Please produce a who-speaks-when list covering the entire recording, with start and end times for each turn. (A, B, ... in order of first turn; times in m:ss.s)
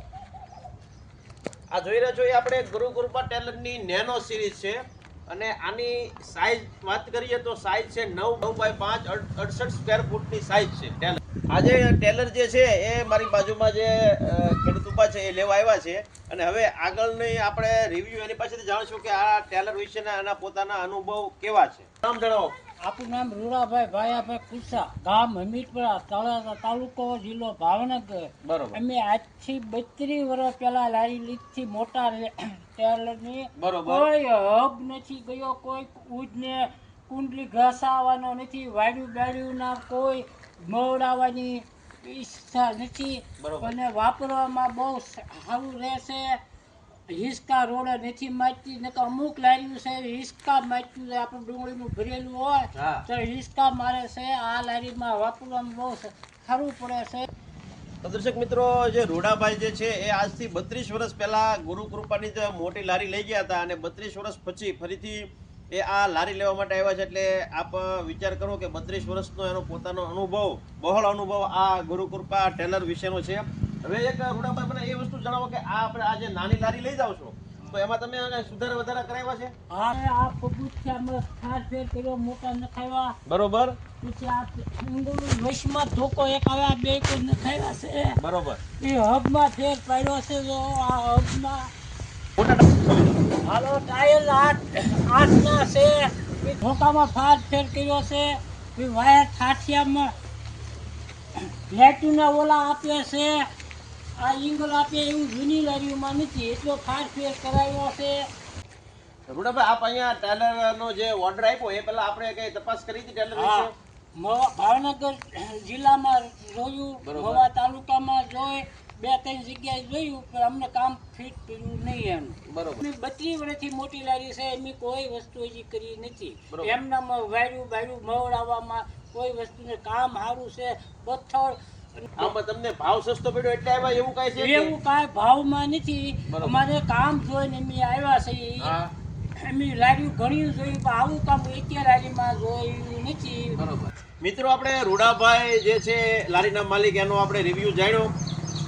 0:01.7-0:22.5 A
0:22.8-0:46.4 B
0:28.4-0:28.8 A
0:33.6-0:34.1 A
0:43.4-0:43.8 A
0:47.1-0:57.3 B
0:52.8-0:53.0 A
0:58.0-1:19.5 A
1:19.7-1:23.2 B
1:23.3-1:23.8 A
1:24.0-1:28.2 B
1:28.2-1:28.6 A
1:28.8-1:31.7 B
1:32.4-1:33.2 A
1:33.4-1:40.1 B
1:41.4-1:43.5 B
1:44.2-1:48.2 B
1:49.3-1:53.7 A
1:53.4-2:12.3 B
1:57.0-1:57.5 A
2:02.5-2:02.8 A
2:06.5-2:06.8 A
2:12.2-2:14.8 A
2:14.4-2:18.8 B
2:16.3-2:16.6 A
2:18.6-2:18.9 A
2:19.4-2:23.6 B
2:23.6-2:28.1 A